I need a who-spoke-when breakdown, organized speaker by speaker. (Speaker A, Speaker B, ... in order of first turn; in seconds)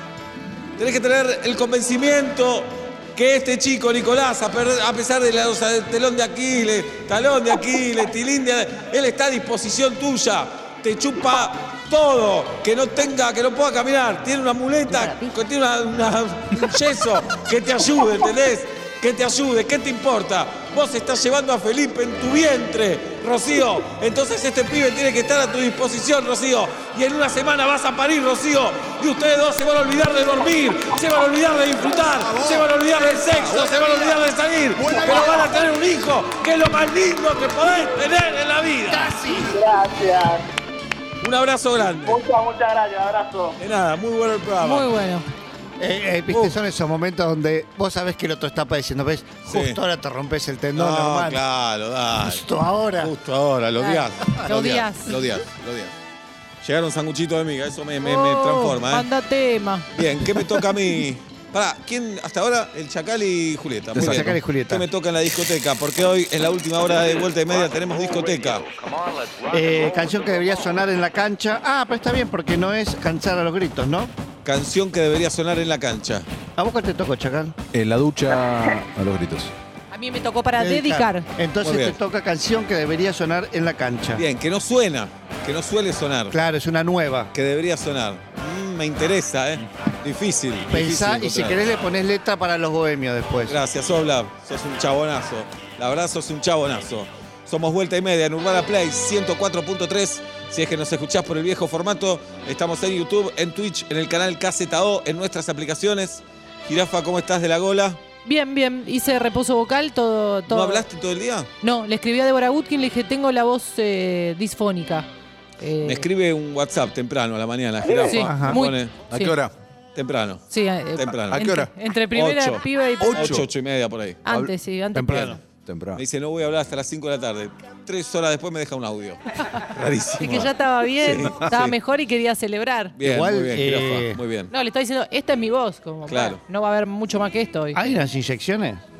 Speaker A: 0.8-39.2, 41.2-42.2, 43.6-44.9, 46.3-46.5, 49.5-49.8, 50.7-52.5, 53.0-55.9, 56.6-59.1, 59.9-68.7, 74.4-76.3, 81.6-82.0, 84.2-86.4, 87.3-91.6, 93.5-108.0, 110.5-111.5, 115.8-119.0, 119.9-120.4, 121.0-121.4, 122.1-124.2, 126.0-131.7, 133.0-134.5, 136.1-136.4
Speaker B: 32.0-34.2, 34.7-35.6, 63.9-64.4, 77.7-79.5, 119.1-119.5, 121.3-121.7, 123.0-123.5, 124.3-124.5, 125.1-126.0
Speaker C: 38.9-39.6, 45.8-51.4, 52.2-53.1, 64.0-64.8, 69.5-74.1, 76.6-77.5, 80.5-84.2, 86.3-87.3, 90.7-93.6, 117.8-118.6, 124.9-125.4, 133.0-134.2, 137.7-138.8
Speaker D: 39.4-40.4, 42.0-43.6
Speaker E: 44.6-45.2, 53.8-55.1, 58.0-59.9, 79.9-81.2, 108.2-110.8, 111.6-115.1, 115.6-116.0, 117.9-119.4, 120.5-123.4, 124.2-125.4, 130.2-132.9, 134.5-137.8